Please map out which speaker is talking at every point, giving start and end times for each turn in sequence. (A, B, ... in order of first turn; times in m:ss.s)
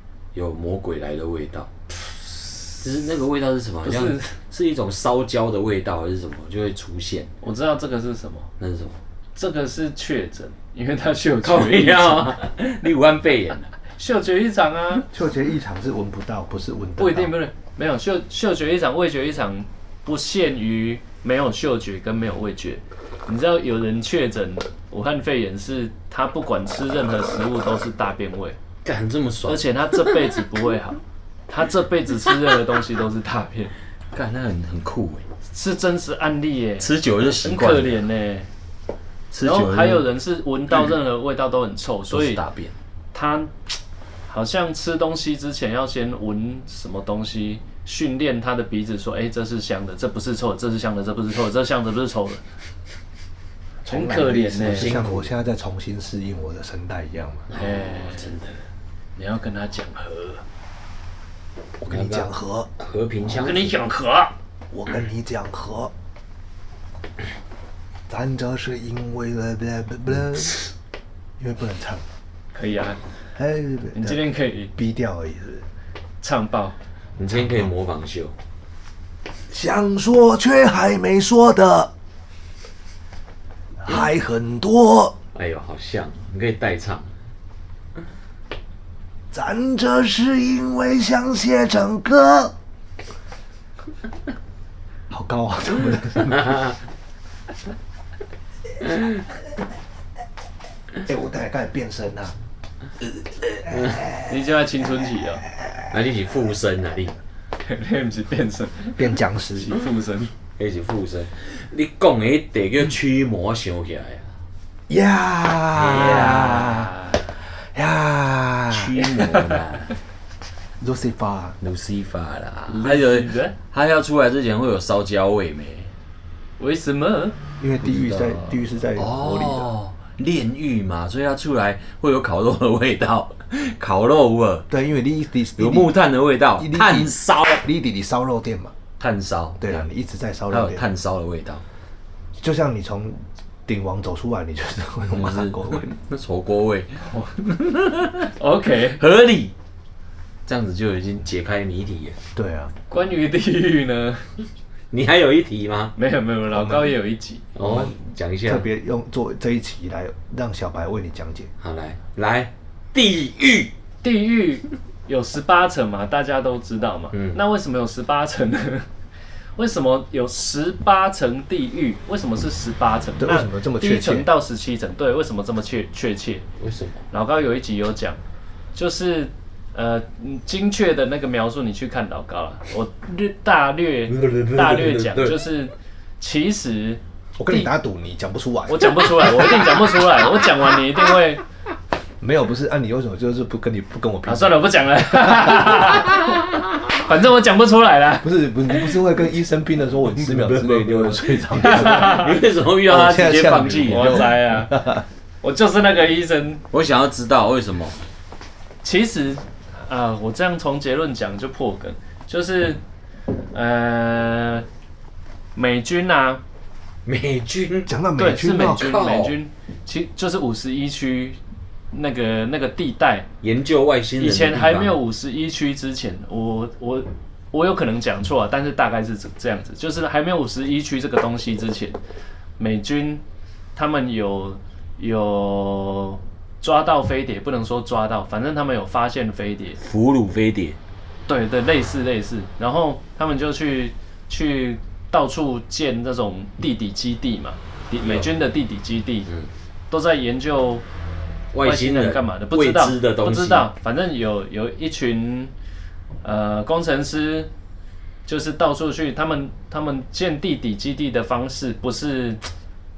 0:00.3-0:01.7 A
0:02.8-0:07.3 A
0:03.8-0:04.3 B
0:07.4-0:08.5 B
0:08.6-0:09.0 A
0:09.4-0:12.3 B
0:11.4-0:13.7 A
0:14.0-0:15.0 B
0:15.1-0:17.3 C
0:17.0-0:28.6 B
0:28.8-0:30.3 A
0:29.5-0:33.7 B
0:34.1-0:35.2 A
0:35.5-0:38.5 B
0:36.8-0:38.0 A
0:39.3-0:40.1 A
0:39.4-0:42.4 B
0:42.1-0:42.7 A
0:43.1-0:43.5 B
0:44.3-0:52.4 B
0:53.8-0:57.5 C
0:53.8-0:55.0 B
0:54.7-0:55.3 A
0:57.5-0:58.6 A
0:57.5-0:58.4 B
0:59.2-1:00.4 B
1:01.8-1:02.7 C
1:01.9-1:03.8 A
1:03.3-1:04.3 B
1:04.7-1:05.9 C
1:08.1-1:10.7 C
1:11.4-1:12.0 C
1:12.5-1:13.0 B
1:13.3-1:14.2 C
1:13.9-1:14.7 B
1:14.7-1:15.6 C
1:16.2-1:16.8 B
1:17.2-1:18.4 A
1:17.3-1:17.7 C
1:19.5-1:21.9 C
1:23.8-1:25.2 C
1:25.3-1:27.1 A
1:29.3-1:32.5 C
1:35.1-1:36.7 C
1:36.3-1:36.8 A
1:41.0-1:42.4 C
1:43.0-1:44.3 C
1:43.7-1:44.0 A
1:44.3-1:45.4 B
1:45.9-1:47.2 A
1:47.6-1:50.3 B
1:49.0-1:49.7 C
1:50.6-1:54.3 A
1:54.9-1:59.3 C
1:55.8-1:56.5 A
1:55.8-1:57.3 B
1:58.7-1:59.9 A
2:00.8-2:01.6 C
2:01.6-2:05.9 A
2:02.7-2:03.5 B
2:06.6-2:07.4 B
2:07.6-2:09.7 C
2:07.8-2:14.7 A
2:14.7-2:16.0 C
2:15.6-2:17.6 A
2:16.6-2:18.7 C
2:19.0-2:19.8 A
2:19.6-2:20.9 C
2:20.5-2:21.6 A
2:22.4-2:25.9 C
2:25.1-2:28.3 A
2:28.4-2:29.0 B
2:29.0-2:29.5 A
2:30.4-2:32.2 A
2:32.3-2:32.7 C
2:32.9-2:34.4 B
2:34.9-2:35.9 A
2:36.0-2:37.5 B
2:36.5-2:36.9 C
2:37.5-2:38.7 A
2:37.6-2:41.5 C
2:41.6-2:43.7 A
2:44.0-2:48.9 B
2:47.1-2:47.4 A
2:49.6-2:56.4 B
2:53.2-2:54.3 C
2:56.6-2:57.0 A
2:57.1-2:58.2 B
2:58.7-3:07.7 B
3:04.1-3:05.4 A
3:07.4-3:09.9 C
3:08.7-3:11.4 B
3:12.2-3:14.7 C
3:14.2-3:18.8 B
3:15.4-3:15.9 C
3:18.2-3:22.3 C
3:20.2-3:24.3 A
3:21.5-3:22.4 B
3:22.8-3:25.0 C
3:23.8-3:24.9 B
3:25.4-3:26.6 B
3:26.7-3:28.0 A
3:28.8-3:32.8 B
3:33.5-3:34.6 B
3:35.5-3:36.4 B
3:37.0-3:37.9 A
3:37.9-3:38.9 C
3:38.2-3:41.4 B
3:38.6-3:39.4 A
3:41.9-3:43.3 B
3:43.4-3:45.0 A
3:44.2-3:52.0 B
3:52.6-3:53.2 B
3:53.7-3:59.8 B
3:59.8-4:00.8 A
4:01.3-4:09.3 B
4:08.0-4:08.3 A
4:09.9-4:10.8 B
4:11.5-4:13.7 A
4:11.6-4:15.5 B
4:16.2-4:17.5 B
4:18.2-4:22.4 B